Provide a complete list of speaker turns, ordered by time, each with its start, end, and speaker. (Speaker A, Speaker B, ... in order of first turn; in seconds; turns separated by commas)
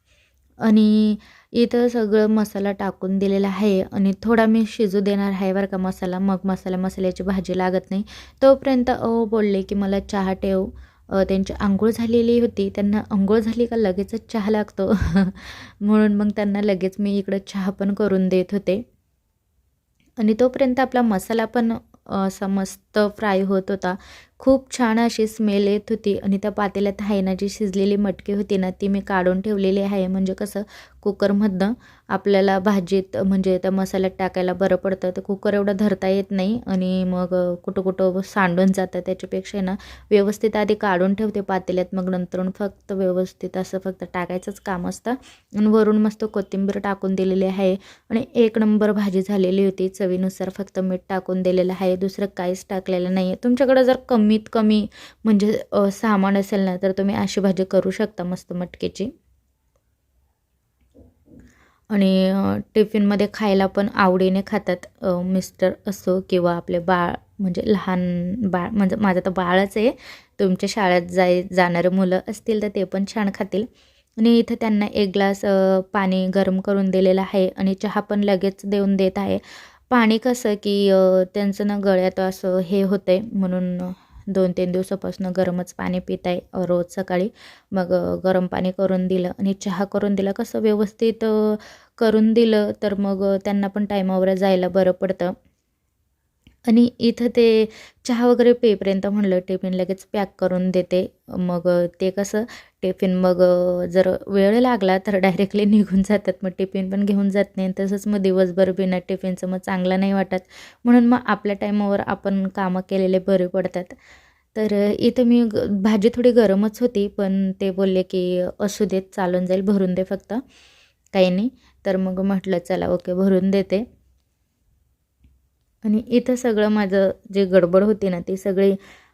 Speaker A: 0.6-18.8, Speaker A: 20.2-59.1, Speaker A: 61.9-73.7, Speaker A: 74.2-95.3, Speaker A: 96.7-114.0, Speaker A: 114.5-120.4, Speaker A: 121.1-123.8, Speaker A: 125.8-128.8